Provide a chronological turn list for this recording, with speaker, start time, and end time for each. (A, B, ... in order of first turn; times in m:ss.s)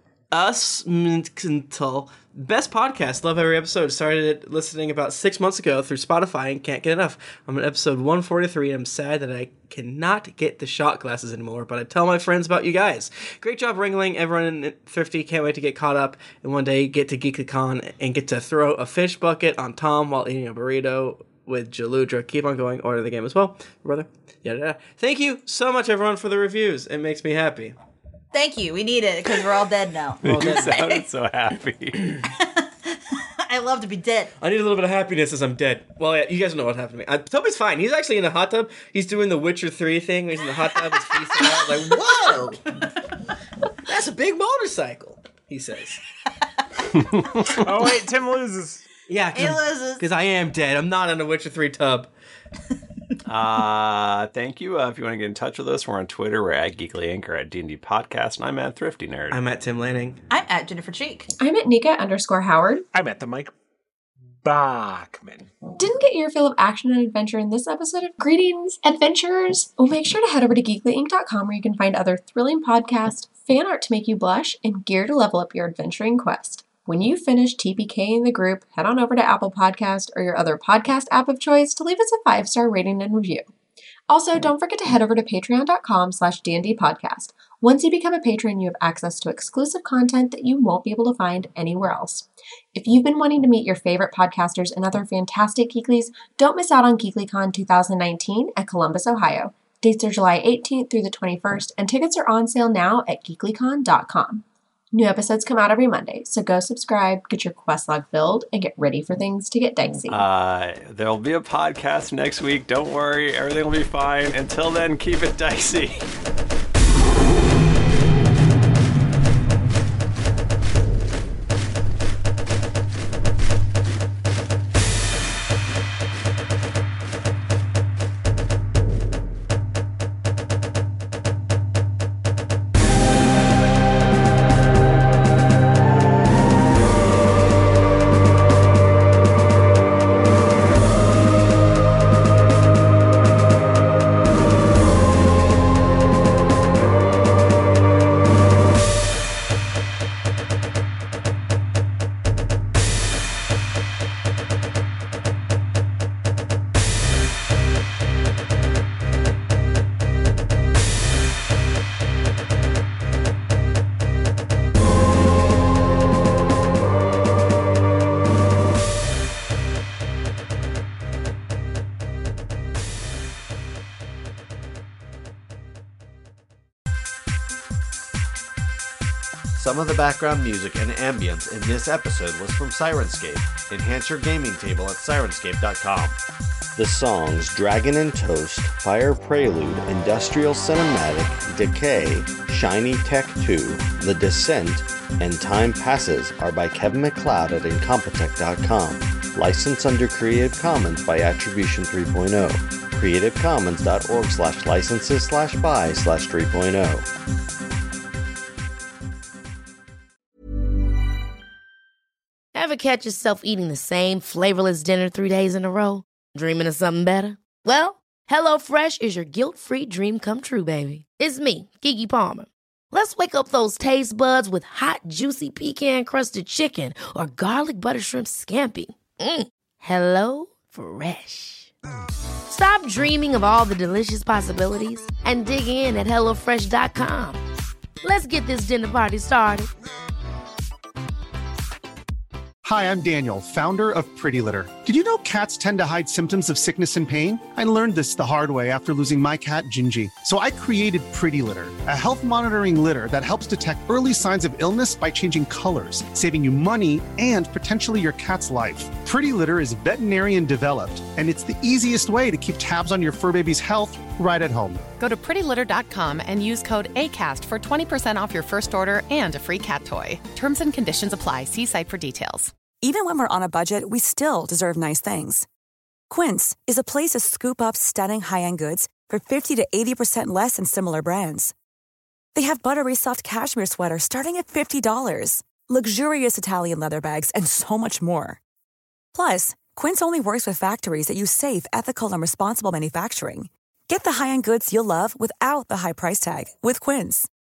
0:00.3-0:27.7 A
0:28.3-0:31.0 B
0:30.2-0:32.2 C
0:30.2-0:30.7 A
0:32.3-0:34.3 B
0:34.4-0:42.6 A
0:40.7-0:42.6 B
0:43.9-0:46.0 A
0:47.6-0:48.8 D
0:49.1-0:52.1 A
0:49.3-0:50.0 B
0:53.2-0:59.4 C
0:59.3-1:00.2 A
1:00.3-1:01.3 B
1:01.4-1:02.8 E
1:02.9-1:03.5 D
1:04.4-1:05.5 D
1:05.8-1:23.4 E
1:24.1-1:50.2 E
1:50.1-1:56.1 C
2:59.5-3:06.2 F
3:06.8-3:27.1 G
3:32.5-3:51.7 H
3:52.5-3:57.4 H
3:58.0-3:59.7 H
4:02.6-4:24.8 I
4:25.0-4:32.5 J
4:32.8-4:35.4 K
4:36.1-4:41.5 K
4:42.3-4:48.4 K
4:49.1-4:57.3 K